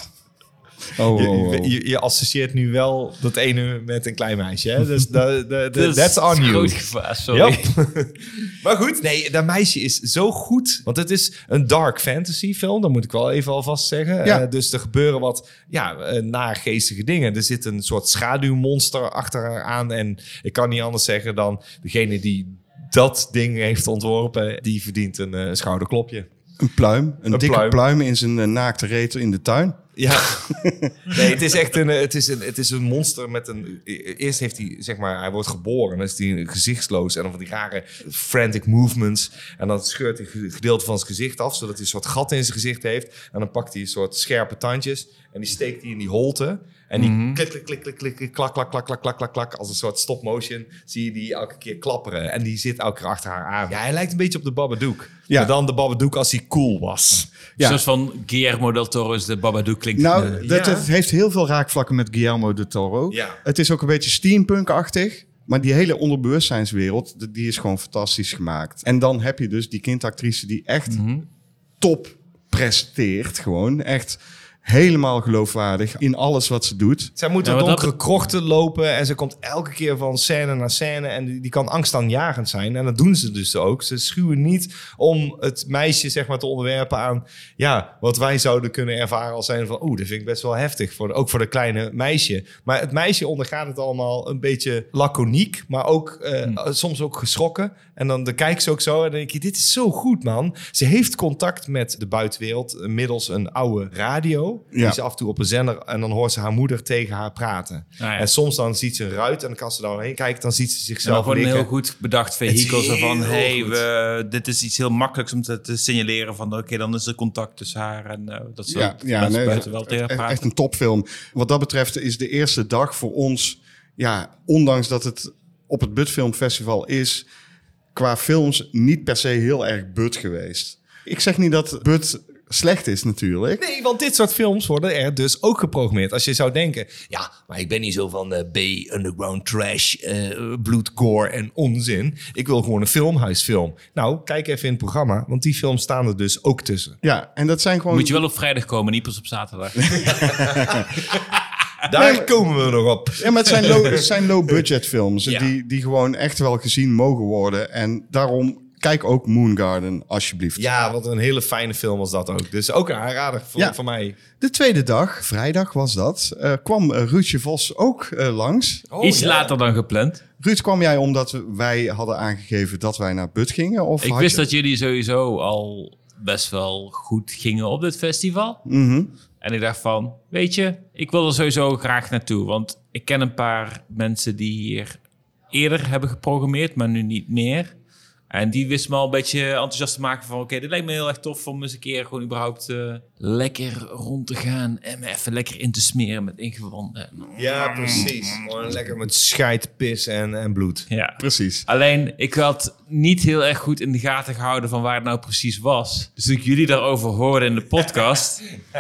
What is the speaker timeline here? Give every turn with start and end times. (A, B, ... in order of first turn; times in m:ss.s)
0:01.0-0:01.7 A
0:01.1-0:06.8 B
0:05.7-0:07.7 C
0:07.3-0:26.3 B
0:26.6-0:29.8 A
0:27.3-0:27.8 B
0:30.0-0:30.4 B
0:30.4-0:31.1 A
0:31.1-0:57.3 B
0:47.0-0:47.4 C
0:57.6-1:00.4 C
1:00.0-1:11.0 A
1:00.4-1:00.9 B
1:03.1-1:03.4 B
1:10.9-1:11.2 C
1:11.8-1:17.1 A
1:17.2-1:51.7 B
1:17.4-1:17.9 C
1:48.0-1:48.3 C
1:51.0-2:00.4 C
1:52.5-1:53.8 B
1:58.7-2:07.3 A
2:07.9-2:13.6 A
2:13.6-2:27.0 B
2:27.0-2:28.2 A
2:27.9-2:30.4 C
2:29.9-2:30.8 A
2:31.8-2:34.0 B
2:31.9-2:32.3 A
2:33.2-2:40.6 A
2:35.2-2:35.5 B
2:40.6-2:44.2 B
2:44.4-2:48.9 A
2:48.9-2:49.5 B
2:49.0-2:50.2 C
2:50.4-2:54.4 A
2:54.0-2:58.6 C
2:58.6-2:59.1 A
2:59.4-3:05.0 C
3:05.5-3:07.7 C
3:08.3-3:18.4 C
3:17.4-3:20.9 B
3:20.9-3:28.4 C
3:21.2-3:21.6 A